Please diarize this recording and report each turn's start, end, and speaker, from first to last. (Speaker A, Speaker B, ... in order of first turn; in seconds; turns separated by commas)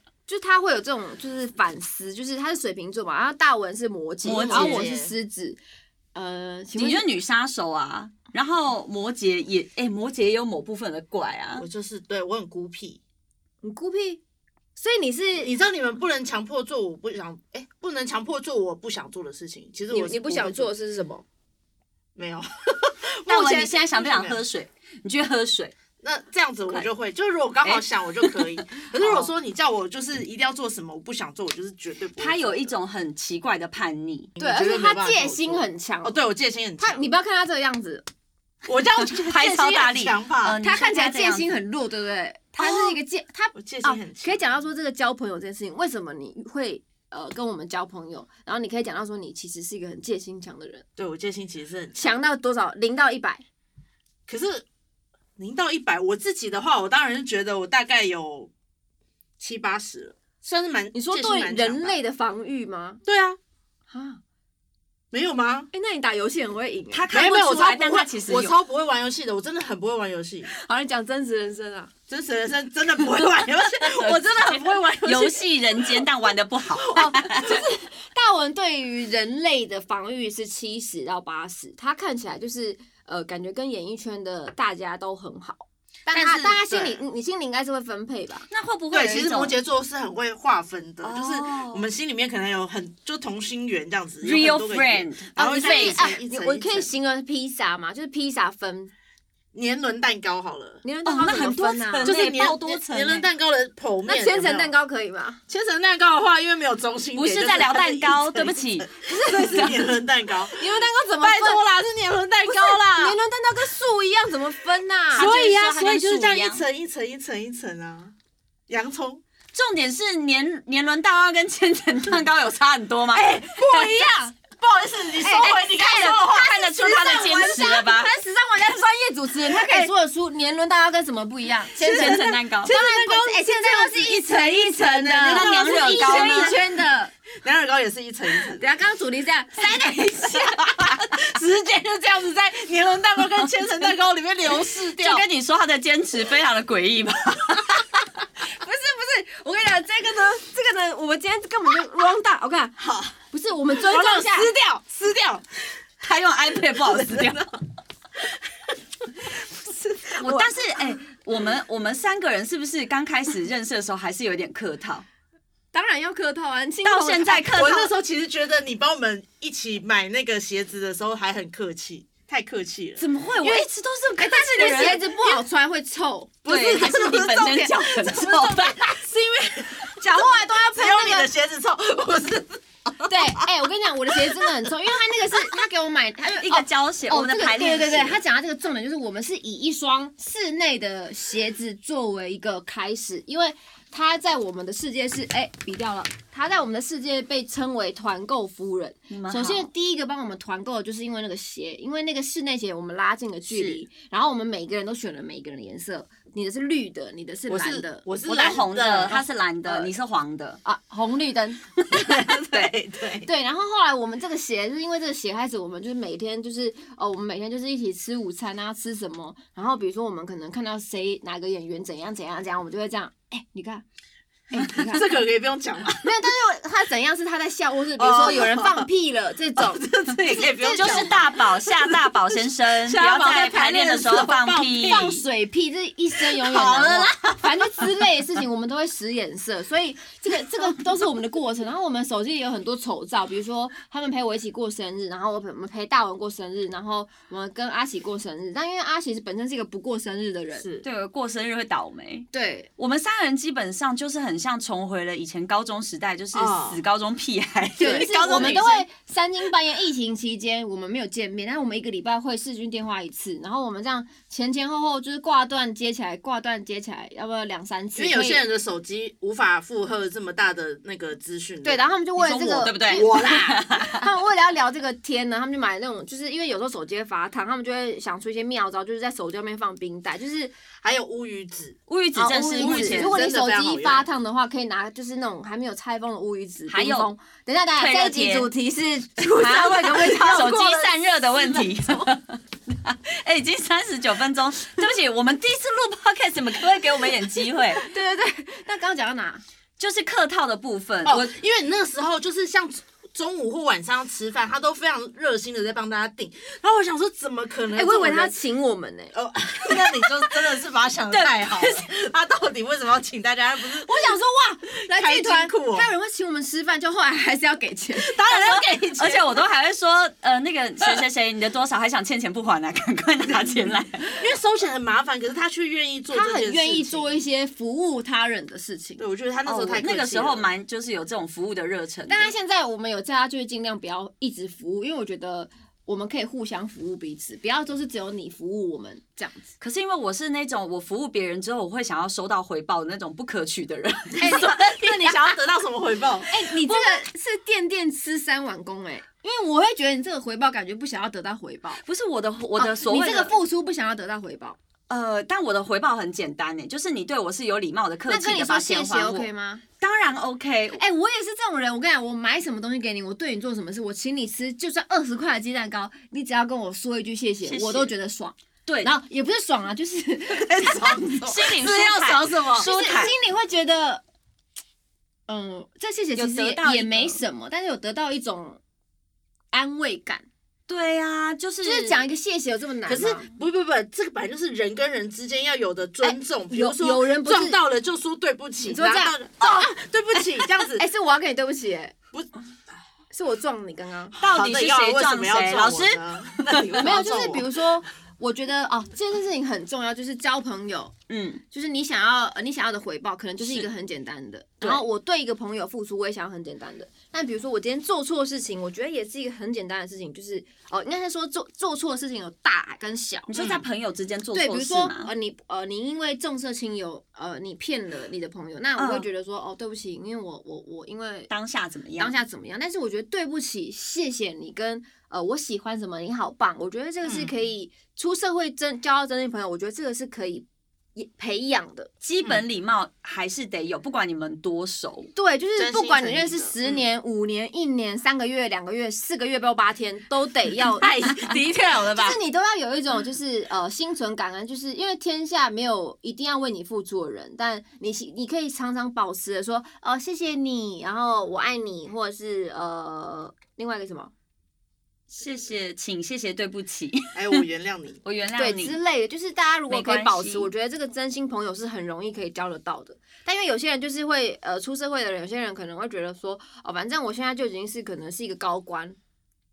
Speaker A: 0.3-5.6, Speaker B: 4.2-4.9, Speaker C: 4.3-5.1, Speaker A: 6.2-7.1, Speaker B: 6.8-11.7, Speaker C: 11.6-13.0, Speaker A: 13.6-14.2, Speaker A: 14.8-15.5, Speaker C: 15.4-20.7, Speaker A: 19.9-21.2, Speaker C: 22.2-24.4, Speaker B: 23.3-25.8, Speaker C: 26.0-32.7, Speaker B: 27.6-28.5, Speaker B: 32.2-34.3, Speaker C: 34.4-37.0, Speaker A: 34.4-36.2, Speaker A: 36.8-38.0, Speaker C: 38.7-40.6, Speaker B: 39.2-41.6, Speaker A: 40.6-50.9, Speaker C: 42.6-42.9, Speaker C: 43.5-44.4, Speaker C: 51.0-52.2, Speaker A: 52.0-53.5, Speaker C: 54.3-54.7, Speaker C: 55.4-58.5, Speaker C: 59.4-62.0, Speaker A: 60.9-63.0, Speaker C: 63.1-63.4, Speaker A: 63.9-64.2, Speaker C: 65.1-65.7, Speaker A: 65.7-67.1, Speaker B: 66.9-68.5, Speaker C: 67.1-70.5, Speaker A: 70.5-71.9, Speaker C: 72.1-76.0, Speaker B: 73.8-77.6, Speaker A: 76.9-88.5, Speaker C: 86.1-87.0, Speaker B: 88.5-89.6, Speaker C: 88.9-96.9, Speaker B: 91.0-91.9, Speaker B: 94.2-96.2, Speaker A: 95.4-98.9, Speaker C: 99.5-100.8, Speaker A: 100.8-102.1, Speaker B: 101.0-103.3, Speaker C: 102.0-104.7, Speaker A: 104.1-105.4, Speaker C: 105.5-110.7, Speaker B: 107.2-108.9, Speaker A: 109.0-109.8, Speaker A: 110.5-111.6, Speaker C: 111.2-113.2, Speaker A: 112.5-115.3, Speaker B: 115.1-116.6, Speaker C: 115.1-118.1, Speaker C: 118.7-119.2, Speaker B: 119.5-123.3, Speaker C: 123.1-127.7, Speaker A: 123.6-124.3, Speaker A: 125.2-137.1, Speaker B: 125.3-128.1, Speaker C: 129.5-129.9, Speaker C: 131.8-136.7, Speaker B: 131.8-132.7, Speaker B: 135.2-136.6, Speaker C: 137.4-138.6, Speaker A: 138.6-140.8, Speaker C: 140.4-145.3, Speaker B: 144.9-147.8, Speaker A: 148.4-152.8, Speaker C: 152.8-153.2, Speaker A: 153.3-154.5, Speaker C: 153.7-155.5, Speaker B: 156.0-157.4, Speaker C: 156.7-157.6, Speaker C: 159.2-160.5, Speaker B: 160.2-165.1, Speaker A: 165.7-167.5, Speaker B: 166.8-167.9, Speaker C: 167.5-173.7, Speaker B: 173.0-175.4, Speaker A: 174.2-176.4, Speaker C: 176.4-183.5, Speaker B: 176.5-178.8, Speaker A: 179.7-181.3, Speaker A: 183.1-208.1, Speaker C: 184.3-184.7, Speaker B: 186.3-188.2, Speaker B: 199.1-199.7, Speaker C: 203.5-203.8, Speaker C: 207.5-209.9, Speaker B: 208.3-210.6, Speaker A: 210.7-212.3, Speaker C: 211.9-213.3, Speaker A: 213.2-223.8, Speaker A: 224.5-225.2, Speaker C: 224.6-226.1, Speaker A: 226.0-231.3, Speaker C: 228.0-228.9, Speaker C: 229.6-235.1, Speaker B: 230.8-235.2, Speaker A: 234.8-250.7, Speaker B: 236.3-237.4, Speaker C: 250.6-250.8, Speaker B: 250.8-258.9, Speaker A: 252.3-252.7, Speaker C: 256.3-256.8, Speaker A: 257.8-268.4, Speaker C: 257.8-258.6, Speaker C: 268.0-271.9, Speaker A: 271.6-280.5, Speaker B: 272.2-274.1, Speaker C: 272.9-273.6, Speaker C: 280.8-281.8, Speaker B: 281.9-283.2, Speaker A: 282.1-292.1, Speaker C: 282.6-284.1, Speaker B: 286.7-287.1, Speaker B: 287.8-288.5, Speaker B: 289.2-297.8, Speaker A: 297.7-299.4, Speaker B: 299.8-301.3, Speaker C: 301.1-308.4, Speaker A: 307.7-309.1, Speaker C: 309.1-314.2, Speaker B: 311.1-311.8, Speaker A: 313.8-318.1, Speaker C: 314.9-315.9, Speaker C: 318.0-319.3, Speaker B: 318.3-324.3, Speaker C: 324.2-327.2, Speaker A: 326.1-329.1, Speaker C: 329.0-330.5, Speaker B: 329.4-332.3, Speaker A: 332.1-339.5, Speaker B: 339.6-344.6, Speaker C: 344.2-346.7, Speaker A: 344.2-345.2, Speaker A: 346.3-351.8, Speaker B: 351.8-353.3, Speaker A: 352.6-354.6, Speaker B: 354.9-359.3, Speaker A: 358.1-359.6, Speaker B: 359.8-360.8, Speaker A: 360.8-374.0, Speaker B: 367.4-367.9, Speaker B: 368.7-368.9, Speaker C: 370.4-372.6, Speaker B: 371.1-373.1, Speaker A: 375.3-378.6, Speaker B: 376.1-377.2, Speaker A: 379.5-380.3, Speaker B: 380.7-382.0, Speaker A: 381.6-383.3, Speaker C: 382.9-390.8, Speaker A: 386.0-387.6, Speaker A: 388.6-391.9, Speaker A: 393.1-394.2, Speaker B: 394.2-396.7, Speaker C: 394.2-397.6, Speaker A: 396.8-400.9, Speaker B: 401.1-401.4, Speaker A: 401.5-413.3, Speaker B: 403.4-403.7, Speaker B: 413.3-415.1, Speaker C: 413.4-413.7, Speaker A: 414.4-421.3, Speaker B: 418.8-419.1, Speaker B: 421.3-422.1, Speaker A: 422.0-431.9, Speaker C: 427.0-427.3, Speaker B: 432.0-435.1, Speaker A: 435.1-440.9, Speaker C: 435.6-436.8, Speaker C: 440.8-442.2, Speaker A: 441.9-454.1, Speaker B: 455.1-457.4, Speaker C: 457.1-458.0, Speaker B: 458.1-458.8, Speaker A: 458.4-469.0, Speaker B: 459.7-460.5